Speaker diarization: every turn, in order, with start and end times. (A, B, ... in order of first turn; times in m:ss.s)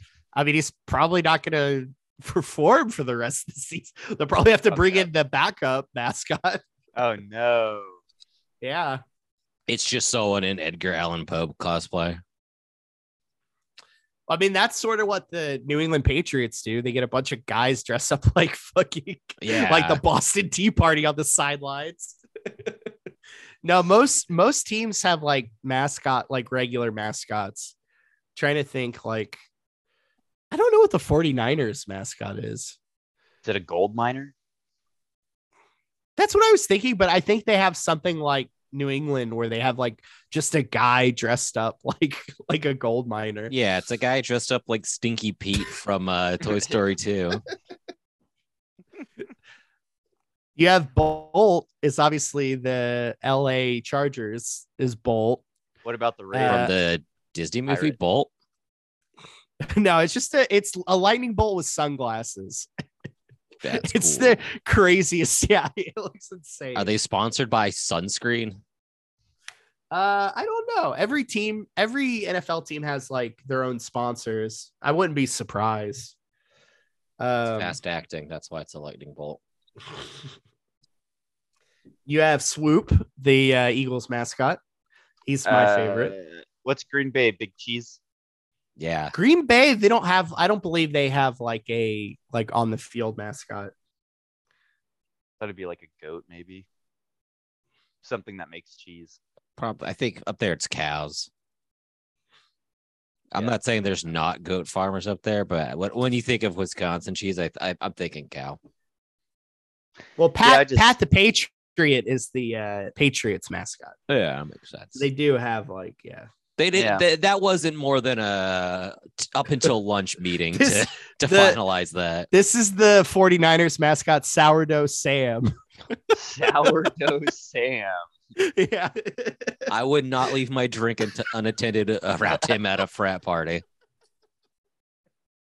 0:00.3-0:06.6 A
0:04.7-0:05.0 B
0:07.0-0:08.0 B
0:08.6-0:09.0 A
0:09.7-0:12.2 C
0:14.3-0:22.7 A
0:19.4-0:20.0 C
0:23.6-0:27.7 A
0:28.3-0:29.4 A
0:30.5-0:32.8 A
0:33.4-0:34.3 B
0:36.2-0:43.5 A
0:43.5-0:47.4 C
0:50.6-0:55.4 A
0:55.8-0:56.7 B
0:56.3-0:56.7 A
0:56.5-0:58.3 C
0:57.7-0:57.9 B
0:59.6-1:02.7 A
1:03.6-1:04.4 C
1:03.7-1:06.9 A
1:06.7-1:08.6 C
1:09.9-1:16.1 A
1:17.2-1:17.8 A
1:17.6-1:19.4 C
1:22.1-1:24.6 A
1:25.2-1:26.1 A
1:25.4-1:28.0 B
1:28.8-1:29.1 C
1:29.1-1:33.7 A
1:35.4-1:36.6 B
1:38.0-1:39.2 B
1:39.6-1:41.3 C
1:43.3-1:48.6 C
1:50.2-1:54.0 A
1:50.4-1:50.9 B
1:54.1-1:55.0 C
1:54.9-1:56.3 A
1:56.6-2:02.3 C
1:56.7-1:57.0 B
2:00.5-2:01.6 A
2:02.3-2:05.5 A
2:06.2-2:08.0 B
2:08.4-2:09.7 A
2:09.7-2:13.6 C